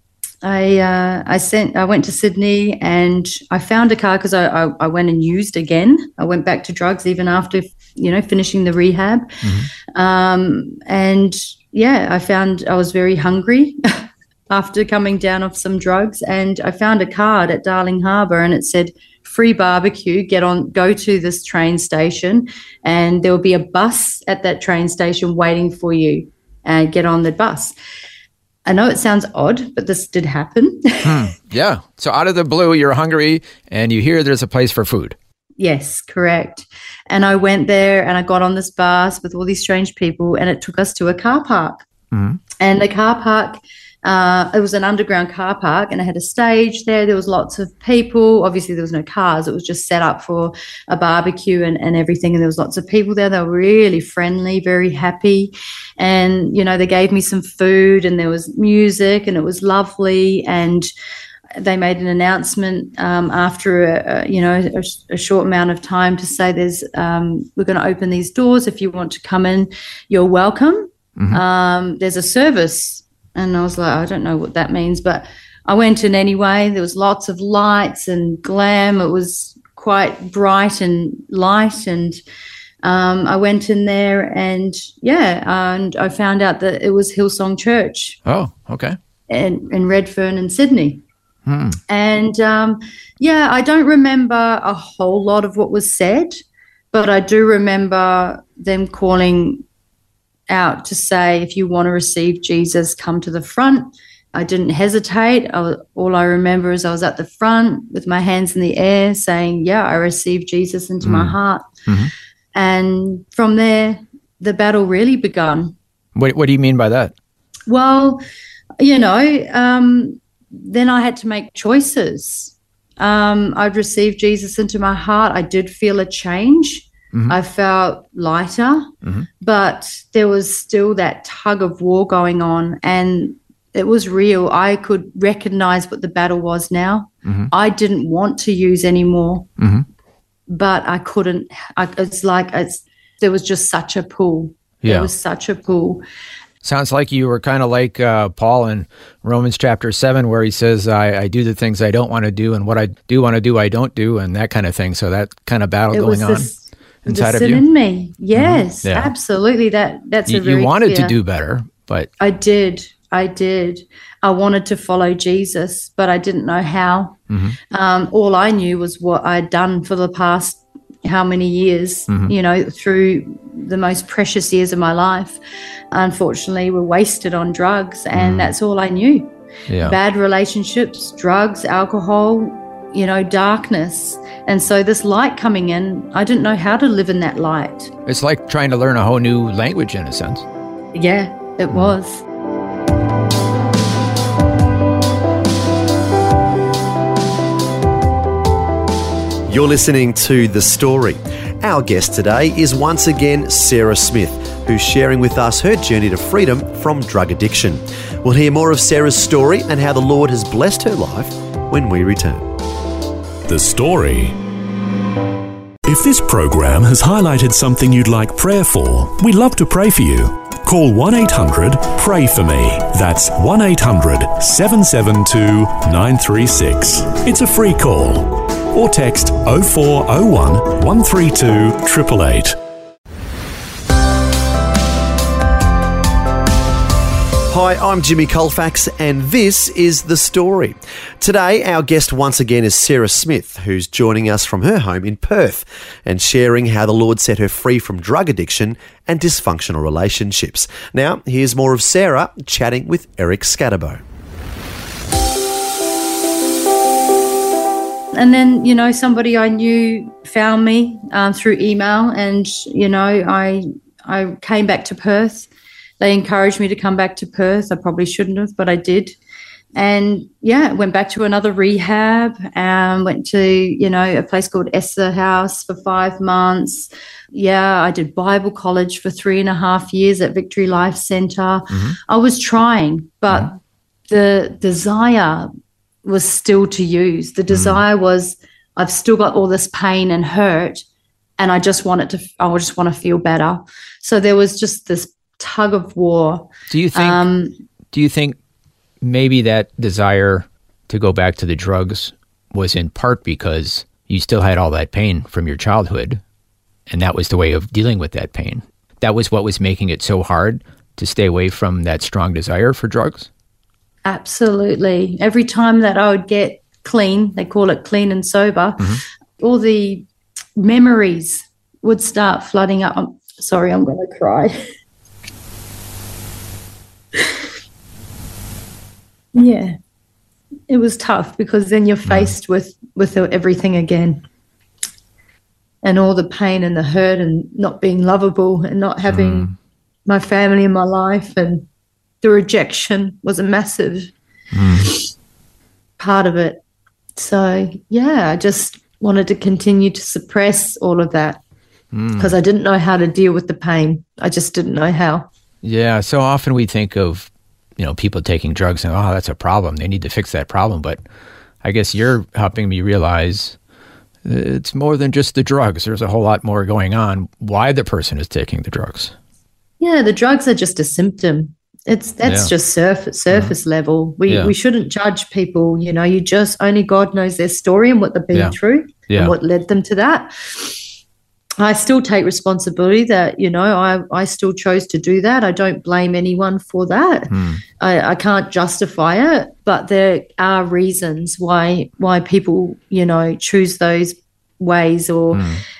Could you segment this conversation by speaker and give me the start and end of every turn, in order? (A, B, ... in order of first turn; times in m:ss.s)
0:00.4-0:27.8 A
0:09.4-0:09.7 B
0:28.7-0:31.2 A
0:31.0-0:35.2 B
0:35.6-0:41.8 A
0:42.1-0:42.4 B
0:42.6-1:00.9 A
1:01.6-1:22.2 A
1:22.8-1:28.2 A
1:28.3-1:29.0 B
1:29.3-1:31.0 A
1:31.5-1:31.8 B
1:31.9-1:36.4 A
1:36.9-1:39.6 A
1:40.5-1:51.7 A
1:51.0-1:51.4 B
1:52.6-1:55.8 A
1:56.2-1:57.1 B
1:57.7-1:58.2 A
1:58.8-2:19.5 A
2:17.2-2:17.5 B
2:19.6-2:19.8 B
2:20.5-2:26.0 A
2:24.8-2:25.1 B
2:26.6-2:36.5 B
2:35.9-2:41.1 A
2:37.0-2:37.6 B
2:38.4-2:39.1 B
2:40.3-2:42.1 B
2:42.2-2:47.2 A
2:47.3-2:47.6 B
2:47.7-2:55.4 A
2:55.9-3:07.9 A
2:58.2-2:58.5 B
2:59.7-3:00.0 B
3:08.1-3:10.5 B
3:10.9-3:12.2 A
3:19.5-3:32.5 C
3:33.5-3:34.4 D
3:35.8-3:52.6 D
3:57.5-4:14.0 C
4:18.1-4:25.5 A
4:26.0-4:29.2 A
4:29.8-4:43.5 A
4:41.7-4:42.0 B
4:44.1-4:45.5 A
4:46.0-4:50.8 A
4:47.5-4:47.8 B
4:51.4-4:57.6 A
4:56.7-4:57.2 B
4:57.9-4:58.4 B
4:59.0-5:06.2 B
5:06.9-5:13.3 B
5:14.0-5:20.1 A
5:20.6-5:24.7 A
5:29.3-5:29.8 A
5:30.7-5:34.2 A
5:32.1-5:32.3 B
5:35.8-5:39.5 A
5:39.1-5:39.5 B
5:40.1-5:41.7 A
5:42.2-5:44.1 A
5:44.5-5:44.9 B
5:46.0-5:46.6 A
5:47.2-5:51.4 A
5:51.9-5:52.4 B
5:52.2-5:55.3 A
5:55.6-6:01.0 B
6:01.6-6:03.6 B
6:04.2-6:09.1 B
6:09.8-6:20.8 A
6:12.2-6:12.5 B
6:14.3-6:14.5 B
6:19.1-6:19.3 B
6:21.6-6:35.5 A
6:27.3-6:27.6 B
6:35.3-6:35.6 B